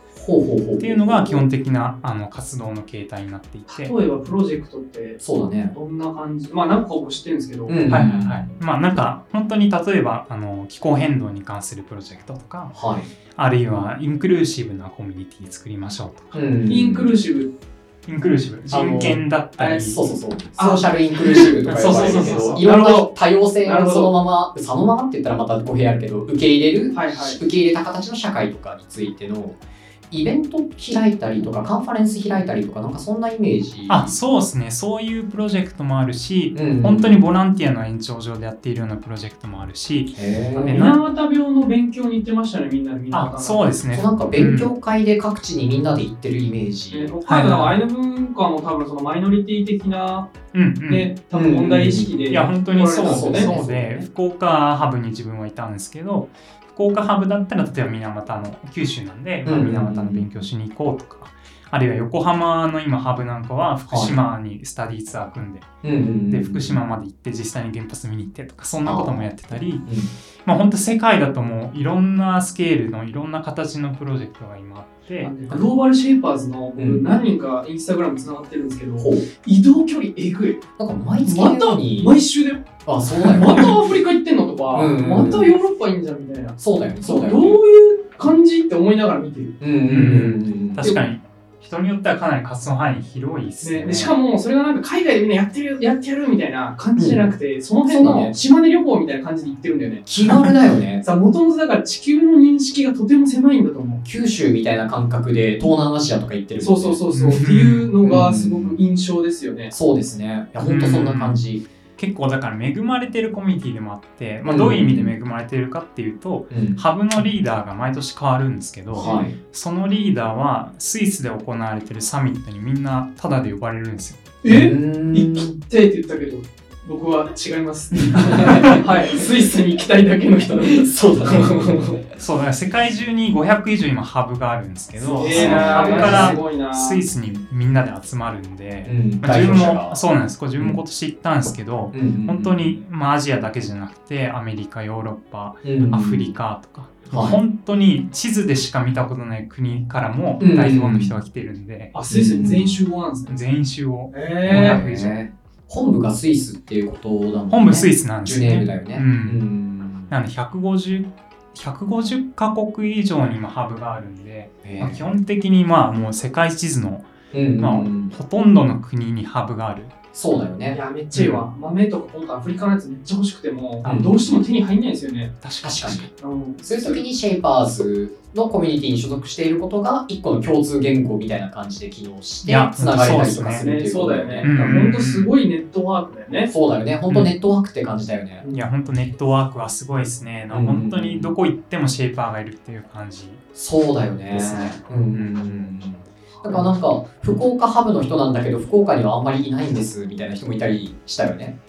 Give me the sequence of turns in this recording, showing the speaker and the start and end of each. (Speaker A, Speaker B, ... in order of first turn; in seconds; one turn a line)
Speaker A: 0.1-1.5
Speaker B: 0.8-3.9
Speaker C: 3.7-5.2
Speaker A: 5.2-5.8
Speaker C: 5.7-7.8
Speaker A: 7.7-8.6
Speaker B: 7.9-12.8
Speaker A: 12.7-13.1
Speaker B: 13.3-16.4
Speaker A: 16.3-17.1
Speaker C: 16.7-17.5
Speaker B: 18.1-20.0
Speaker A: 18.7-19.2
Speaker C: 19.6-19.9
Speaker A: 19.8-29.6
Speaker C: 20.6-24.1
Speaker B: 21.7-22.6
Speaker C: 26.9-27.4
Speaker A: 30.1-34.2
Speaker B: 33.9-41.0
Speaker A: 36.5-37.2
Speaker A: 40.1-40.9
Speaker C: 40.6-43.7
Speaker B: 43.1-44.7
Speaker A: 43.9-47.1
Speaker C: 46.9-50.3
Speaker B: 47.3-47.8
Speaker B: 50.5-51.1
Speaker C: 50.9-53.5
Speaker A: 51.3-52.2
Speaker B: 52.3-65.7
Speaker A: 53.0-54.1
Speaker A: 59.5-60.3
Speaker A: 63.9-64.2
Speaker A: 65.8-66.8
Speaker B: 66.3-69.9
Speaker A: 68.8-69.3
Speaker A: 69.8-70.1
Speaker B: 70.5-75.4
Speaker C: 75.2-80.6
Speaker A: 76.8-77.0
Speaker A: 79.0-79.3
Speaker A: 80.8-82.2
Speaker C: 81.2-89.6
Speaker A: 82.8-83.8
Speaker A: 84.7-85.5
Speaker A: 86.6-87.6
Speaker A: 89.6-90.9
Speaker B: 89.9-94.2
Speaker C: 93.6-100.1
Speaker A: 97.0-97.3
Speaker A: 97.9-98.4
Speaker A: 100.1-101.0
Speaker C: 101.0-104.0
Speaker A: 104.0-107.0
Speaker C: 106.6-109.7
Speaker B: 107.1-107.9
Speaker A: 108.0-108.8
Speaker A: 109.7-111.7
Speaker B: 110.6-111.4
Speaker B: 112.0-124.2
Speaker A: 114.4-115.1
Speaker A: 116.5-116.8
Speaker A: 118.9-119.4
Speaker C: 124.4-132.0
Speaker A: 124.5-125.6
Speaker A: 128.1-128.9
Speaker A: 130.7-131.9
Speaker B: 132.2-151.9
Speaker C: 135.0-137.0
Speaker A: 135.2-136.4
Speaker A: 138.9-140.0
Speaker A: 141.9-142.8
Speaker A: 145.6-146.2
Speaker A: 147.1-147.4
Speaker A: 150.4-151.1
Speaker C: 151.9-153.4
Speaker A: 152.1-152.7
Speaker B: 153.3-155.2
Speaker C: 154.1-154.8
Speaker A: 154.5-160.1
Speaker B: 157.5-159.4
Speaker B: 160.1-167.1
Speaker A: 164.6-165.1
Speaker A: 167.3-168.2
Speaker B: 167.6-169.9
Speaker A: 170.1-170.8
Speaker C: 170.7-175.3
Speaker B: 171.1-171.4
Speaker A: 173.8-174.4
Speaker B: 175.4-176.1
Speaker A: 175.6-184.7
Speaker C: 176.2-177.0
Speaker B: 182.4-183.7
Speaker C: 183.6-186.5
Speaker B: 184.4-185.3
Speaker A: 186.5-188.4
Speaker B: 188.5-193.4
Speaker A: 190.5-191.3
Speaker A: 193.6-201.6
Speaker B: 194.3-194.6
Speaker B: 195.1-195.8